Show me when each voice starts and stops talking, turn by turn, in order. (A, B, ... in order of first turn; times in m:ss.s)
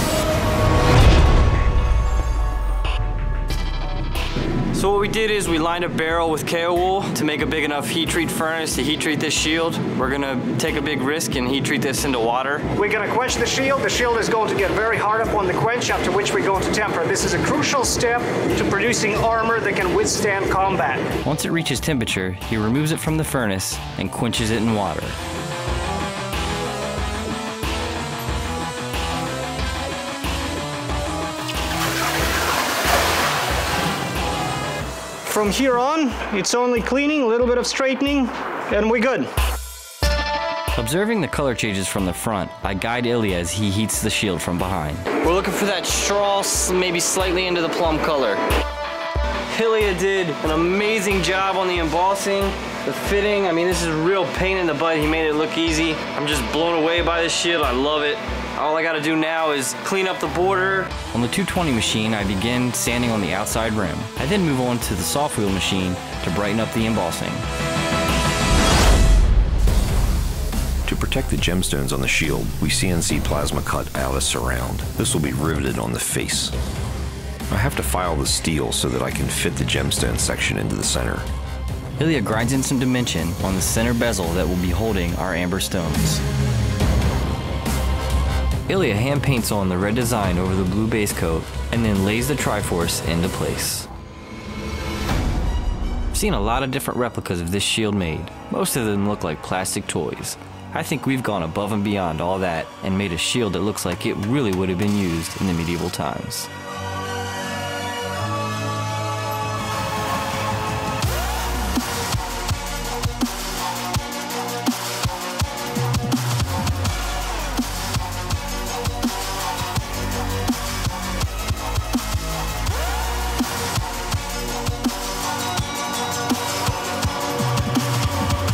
0:04.7-0:12.7 A
0:12.7-0:21.0 B
0:21.2-0:25.2 A
0:35.2-0:39.3 B
0:40.7-0:48.4 A
0:49.5-1:07.4 A
1:10.8-1:16.5 C
1:17.5-1:21.3 C
1:22.0-1:26.2 A
1:28.7-1:33.9 A
1:36.1-1:46.5 A